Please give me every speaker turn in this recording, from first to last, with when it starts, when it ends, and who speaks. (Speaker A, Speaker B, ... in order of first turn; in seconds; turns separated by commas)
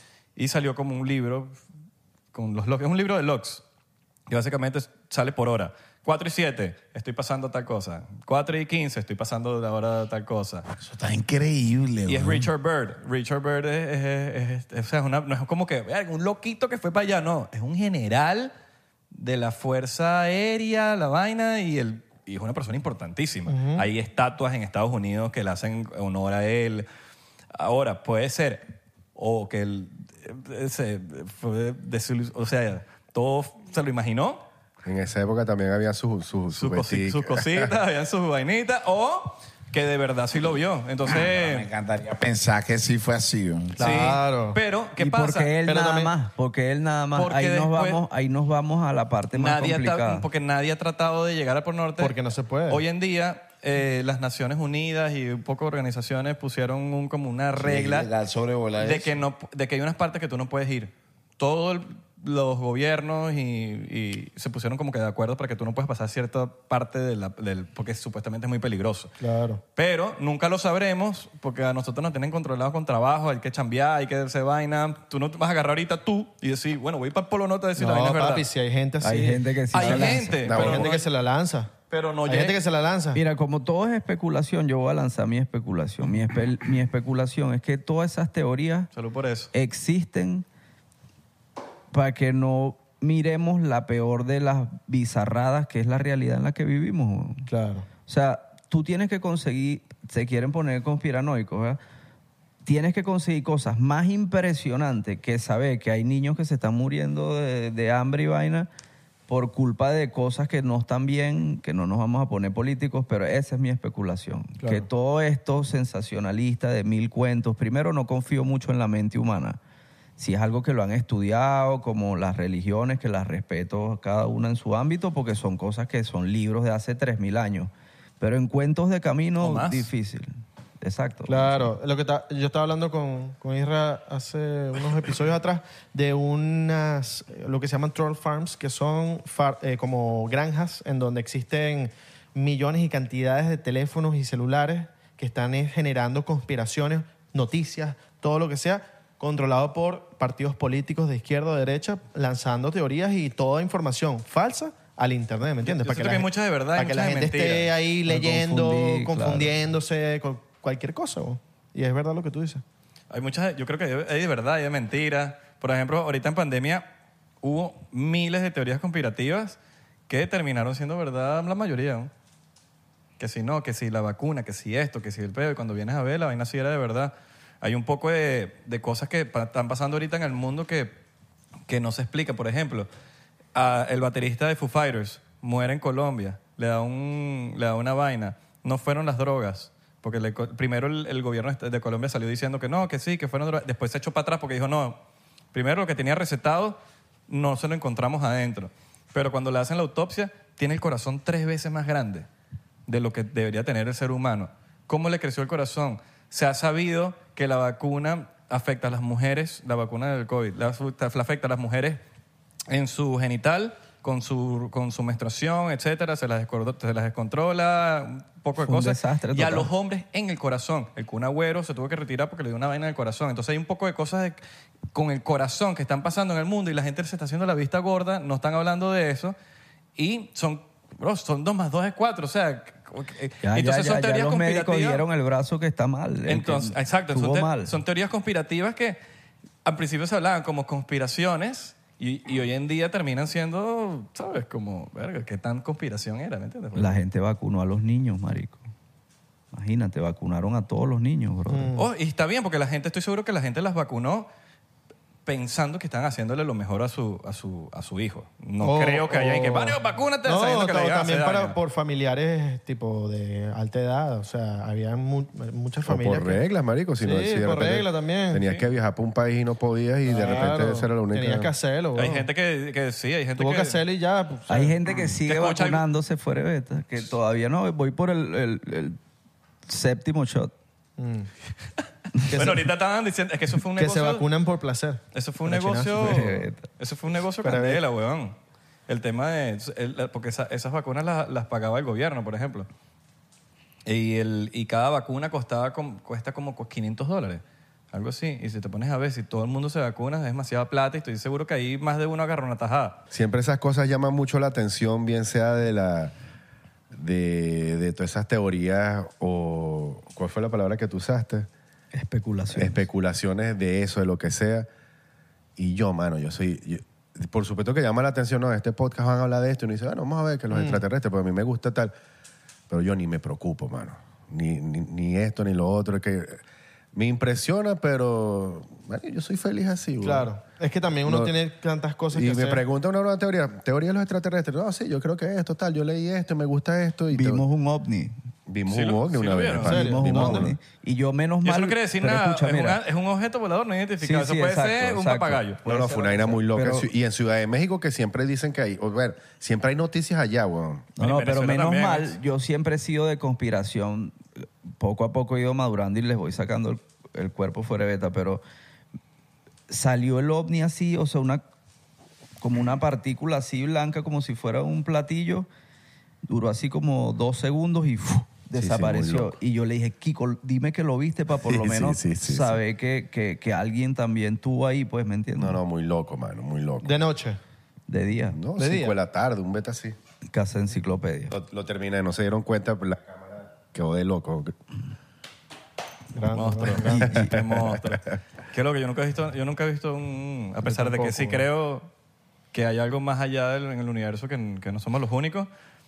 Speaker A: 0.4-1.6, Speaker A: 2.3-3.6, Speaker A: 4.3-10.7, Speaker B: 10.8-12.5, Speaker A: 12.1-18.5, Speaker A: 19.1-26.9, Speaker C: 23.5-23.9, Speaker A: 27.6-34.4, Speaker D: 34.9-37.7, Speaker A: 36.5-41.7, Speaker B: 41.1-44.0, Speaker C: 43.8-44.6, Speaker A: 43.8-45.5, Speaker E: 45.0-50.3, Speaker C: 45.7-46.1, Speaker A: 47.1-48.0, Speaker A: 49.3-52.1, Speaker C: 52.0-52.8, Speaker A: 52.7-58.1, Speaker B: 57.5-59.2, Speaker A: 58.8-69.1, Speaker C: 69.2-69.6, Speaker A: 69.8-78.5, Speaker C: 77.8-81.7, Speaker E: 79.0-80.5, Speaker A: 79.7-81.1, Speaker D: 80.5-80.9, Speaker A: 81.9-82.6, Speaker C: 82.3-83.2, Speaker E: 83.2-88.9, Speaker A: 88.9-89.5, Speaker E: 89.5-90.5, Speaker E: 91.9-97.5, Speaker C: 97.5-97.9, Speaker E: 98.1-101.8, Speaker E: 102.7-108.7, Speaker E: 109.3-119.6, Speaker C: 114.6-114.9, Speaker E: 120.2-131.7, Speaker A: 129.4-129.9, Speaker C: 131.3-162.6, Speaker A: 155.6-157.7, Speaker E: 158.1-159.5, Speaker A: 163.1-166.9, Speaker A: 167.4-169.6, Speaker A: 170.1-172.1, Speaker A: 173.2-181.0, Speaker A: 181.7-182.9, Speaker A: 183.5-195.0, Speaker A: 195.5-202.3, Speaker A: 202.9-212.0, Speaker A: 212.7-224.4, Speaker E: 218.6-219.7, Speaker A: 224.9-229.4, Speaker A: 230.0-235.0, Speaker E: 233.4-237.8, Speaker A: 236.3-239.0, Speaker A: 239.6-247.0, Speaker E: 246.8-248.6, Speaker E: 249.5-251.7, Speaker C: 251.5-251.9, Speaker A: 251.8-254.3, Speaker A: 255.3-261.6, Speaker C: 258.6-266.4, Speaker D: 265.8-271.5, Speaker C: 267.0-268.4, Speaker C: 270.1-272.3, Speaker A: 272.0-273.8, Speaker C: 273.4-274.8, Speaker E: 274.5-279.0, Speaker A: 275.3-275.8, Speaker E: 279.7-280.5, Speaker C: 281.0-281.3, Speaker C: 282.3-282.6, Speaker A: 282.3-284.3, Speaker C: 283.8-286.2, Speaker A: 285.1-288.4, Speaker E: 286.0-286.7, Speaker C: 287.4-287.8, Speaker A: 288.9-292.7, Speaker A: 293.9-303.0, Speaker D: 303.1-306.1, Speaker D: 306.9-311.5, Speaker E: 311.9-312.8, Speaker D: 312.6-314.7, Speaker D: 315.6-321.9, Speaker C: 320.5-320.8, Speaker D: 322.7-326.4, Speaker D: 326.9-330.3, Speaker C: 330.0-332.6, Speaker D: 331.1-331.3, Speaker D: 332.1-337.4, Speaker E: 337.1-338.1, Speaker D: 338.5-340.6, Speaker A: 338.7-339.8, Speaker C: 339.6-340.5, Speaker E: 339.6-342.8, Speaker A: 341.4-345.6, Speaker E: 344.0-346.9, Speaker D: 345.6-350.9, Speaker E: 351.0-358.4, Speaker A: 351.0-352.2, Speaker E: 359.7-361.4, Speaker E: 362.4-365.5, Speaker E: 366.2-375.6, Speaker D: 368.6-369.4, Speaker D: 371.3-372.6, Speaker D: 375.4-377.0, Speaker C: 376.8-377.4, Speaker E: 377.9-378.4, Speaker D: 378.3-380.0, Speaker C: 378.6-379.0, Speaker E: 380.3-381.4, Speaker D: 381.3-384.5, Speaker C: 386.1-387.1, Speaker A: 386.3-391.9, Speaker E: 386.9-387.3, Speaker D: 387.2-387.9, Speaker C: 390.6-391.5, Speaker A: 392.5-395.5